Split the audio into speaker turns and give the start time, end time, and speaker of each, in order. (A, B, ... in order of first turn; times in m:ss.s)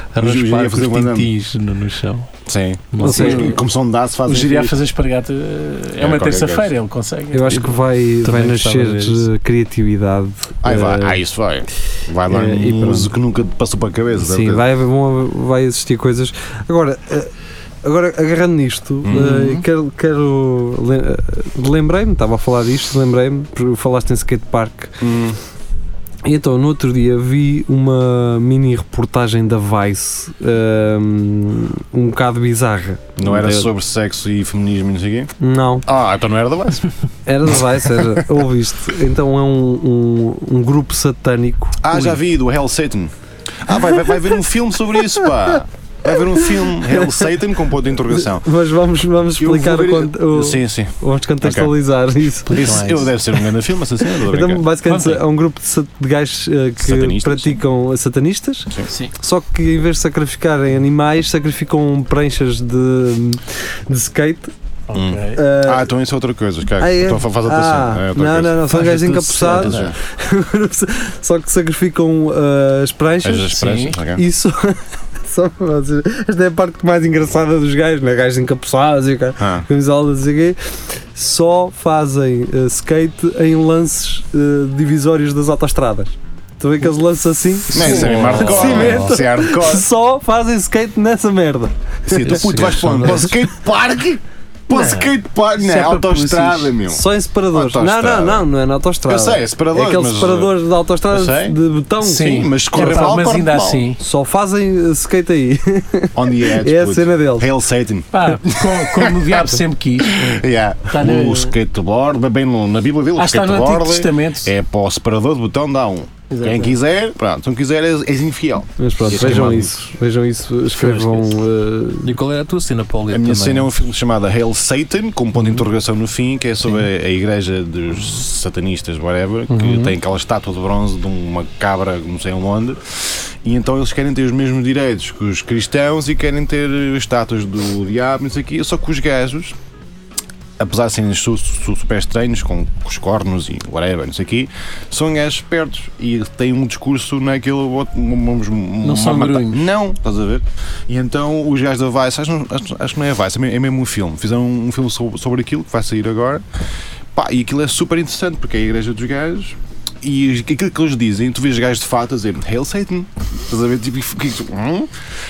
0:00.1-0:02.3 A
0:00.2-0:01.3 B
0:02.5-0:04.8 B
0:02.9-0:03.5 A
0:03.0-0:03.4 C
0:03.1-0:03.6 D
0:04.2-0:07.7 D
0:06.0-0:06.7 B
0:07.3-0:11.2 C
0:08.2-0:09.2 A
0:10.6-0:14.6 B
0:12.3-0:13.1 C
0:14.2-0:17.3 C
0:17.8-0:25.0 C
0:19.0-0:19.6 B
0:25.0-0:25.4 B
0:26.2-0:33.7 C
0:33.2-0:35.3 B
0:35.4-0:35.8 C
0:35.8-0:36.9 B
0:37.3-0:41.8 C
0:41.8-0:48.5 B
0:48.2-0:52.8 C
0:49.4-0:51.8 B
0:52.4-0:54.6 B
0:52.5-0:53.1 A
0:54.3-1:04.5 C
0:54.8-0:55.2 D
0:56.8-0:57.6 B
1:04.9-1:05.4 D
1:04.9-1:10.0 B
1:05.3-1:05.9 C
1:06.8-1:13.6 C
1:08.7-1:09.9 A
1:13.2-1:14.2 B
1:13.5-1:14.0 D
1:14.1-1:20.6 C
1:19.4-1:19.6 B
1:21.1-1:32.3 C
1:27.7-1:29.9 B
1:27.8-1:29.1 A
1:32.0-1:38.5 B
1:32.2-1:33.4 A
1:34.7-1:36.7 D
1:36.9-1:43.1 C
1:39.0-1:41.6 B
1:42.0-1:44.0 D
1:42.2-1:43.9 B
1:44.0-1:47.5 C
1:46.2-1:59.9 B
1:48.1-1:50.4 D
1:50.9-1:51.5 D
1:53.2-1:54.5 D
1:56.3-1:56.7 D
1:58.8-2:02.1 C
2:00.7-2:01.4 D
2:02.0-2:03.7 A
2:03.1-2:19.6 B
2:09.5-2:09.9 D
2:20.6-2:36.4 B
2:28.8-2:29.6 D
2:37.1-2:44.9 B